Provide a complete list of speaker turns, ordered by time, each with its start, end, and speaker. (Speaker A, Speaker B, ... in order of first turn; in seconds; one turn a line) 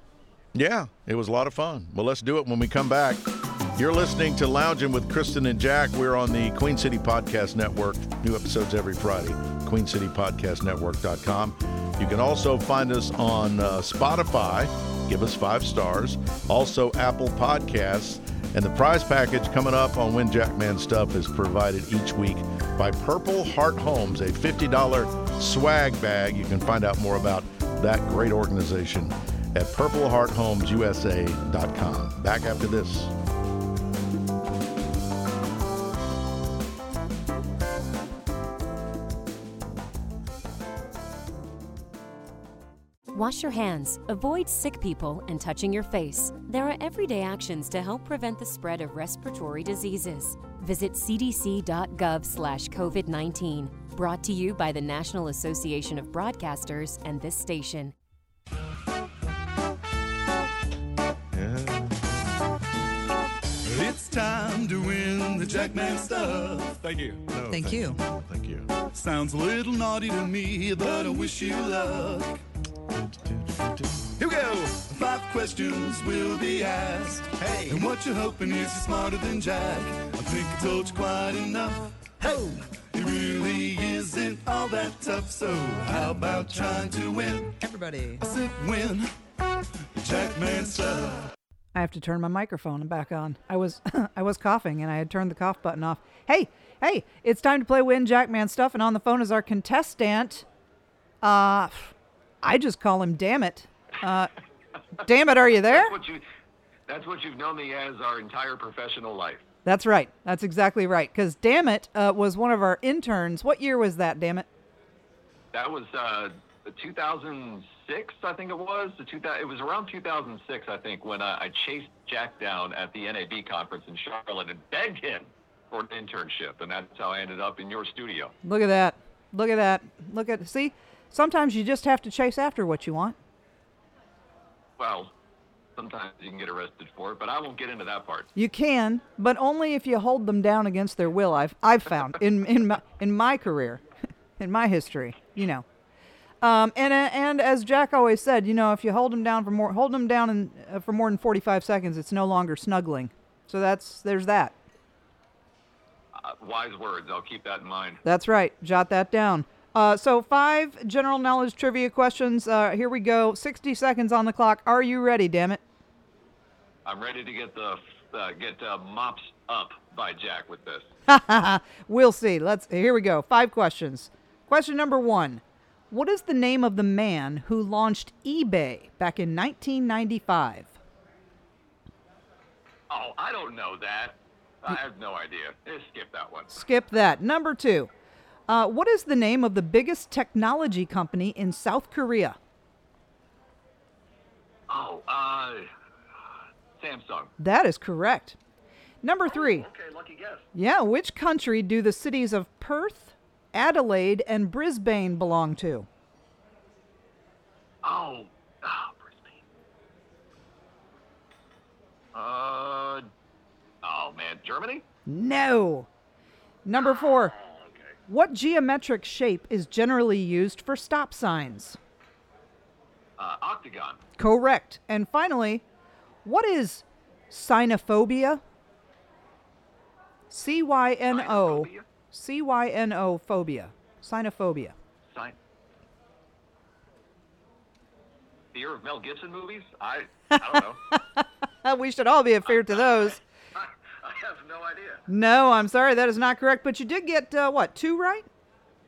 Speaker A: 0.5-33.1
Speaker B: 43.1-58.0
Speaker A: 61.3-61.9
Speaker C: 63.6-67.3
Speaker A: 67.3-68.7
Speaker D: 67.5-68.0
Speaker C: 68.8-72.4
Speaker C: 74.0-87.6
Speaker A: 77.4-77.9
Speaker D: 87.6-88.2
Speaker C: 88.2-89.1
Speaker C: 90.0-91.3
Speaker D: 91.8-100.5
Speaker D: 101.2-104.3
Speaker D: 105.0-106.0
Speaker E: 105.7-106.2
Speaker E: 106.9-109.4
Speaker D: 109.7-114.5
Speaker E: 115.5-128.3
Speaker D: 128.4-133.2
Speaker E: 134.8-135.1
Speaker E: 135.8-138.3
Speaker D: 138.4-143.8
Speaker D: 144.4-145.7
Speaker D: 146.4-154.6
Speaker E: 156.1-158.0
Speaker D: 158.0-165.6
Speaker E: 166.8-170.9
Speaker D: 171.1-180.7
Speaker E: 182.9-186.6
Speaker D: 186.5-187.9
Speaker D: 188.5-192.4
Speaker E: 194.7-195.7
Speaker E: 196.8-197.3
Speaker D: 197.4-198.4
Speaker D: 199.0-199.7
Speaker E: 199.3-200.5
Speaker D: 200.5-205.9
Speaker E: 207.8-209.4
Speaker E: 212.1-213.1
Speaker E: 213.8-214.8
Speaker D: 215.1-215.9
Speaker D: 216.7-217.3
Speaker E: 216.8-217.9
Speaker D: 218.1-221.8
Speaker E: 223.2-224.0
Speaker D: 224.2-225.7
Speaker D: 226.2-228.4
Speaker D: 230.3-234.8
Speaker E: 231.1-231.9
Speaker E: 235.1-235.4
Speaker E: 238.5-240.8
Speaker D: 240.3-243.2
Speaker E: 242.5-245.1
Speaker D: 245.1-248.3